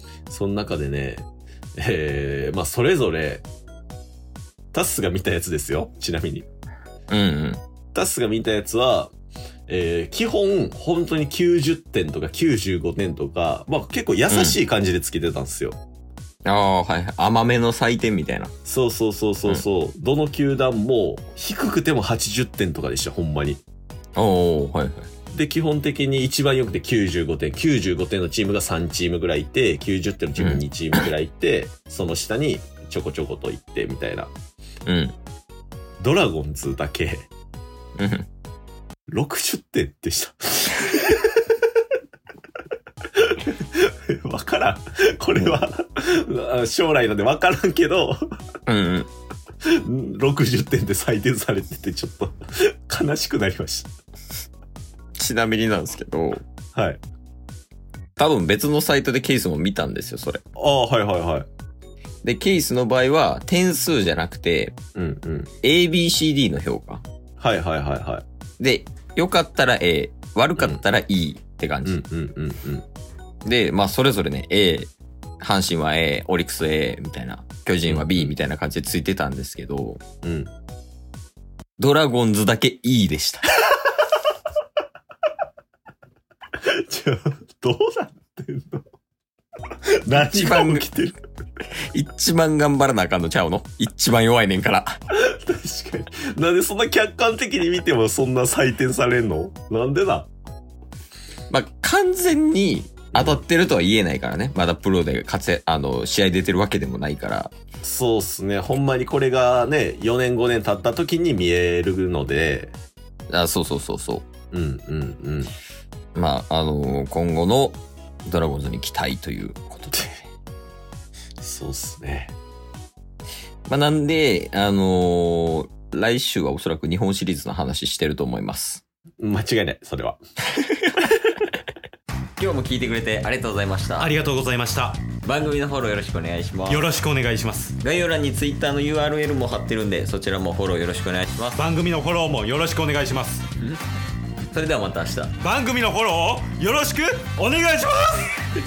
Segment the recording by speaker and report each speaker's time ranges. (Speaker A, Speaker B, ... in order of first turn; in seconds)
Speaker A: 0.3-1.2, 1.8-3.4, 4.7-6.5, 7.9-9.1, 9.7-15.8, 18.6-23.6, 25.3-34.3, 36.0-37.3, 39.1-41.5, 43.1-48.2, 49.6-53.9, 56.7-57.0, 60.5-61.5, 65.0-65.5, 67.4-68.2, 71.8-72.8, 77.9-78.3, 80.2-80.5, 86.6-88.8, 90.0-91.2, 95.1-100.3, 103.1-103.4, 107.8-112.7, 114.5-115.5, 121.4-122.3, 129.2-130.2
Speaker B: 7.1-7.6, 14.3-14.6, 16.4-18.5, 24.1-25.1, 34.9-35.1, 38.0-38.3, 48.7-49.1, 55.2-56.4, 58.2-60.4, 62.2-64.8, 65.6-67.0, 68.6-72.0, 73.4-74.9, 75.4-80.0, 81.8-83.4, 90.1-90.8, 91.9-95.0, 101.5-107.5, 113.3-114.3, 116.1-120.2, 123.7-128.8, 130.6-131.1, 132.4-134.2, 135.2-136.9, 137.8-141.6, 144.5-145.4
Speaker C: 134.0-135.1, 136.7-137.8, 141.5-143.5, 145.4-148.3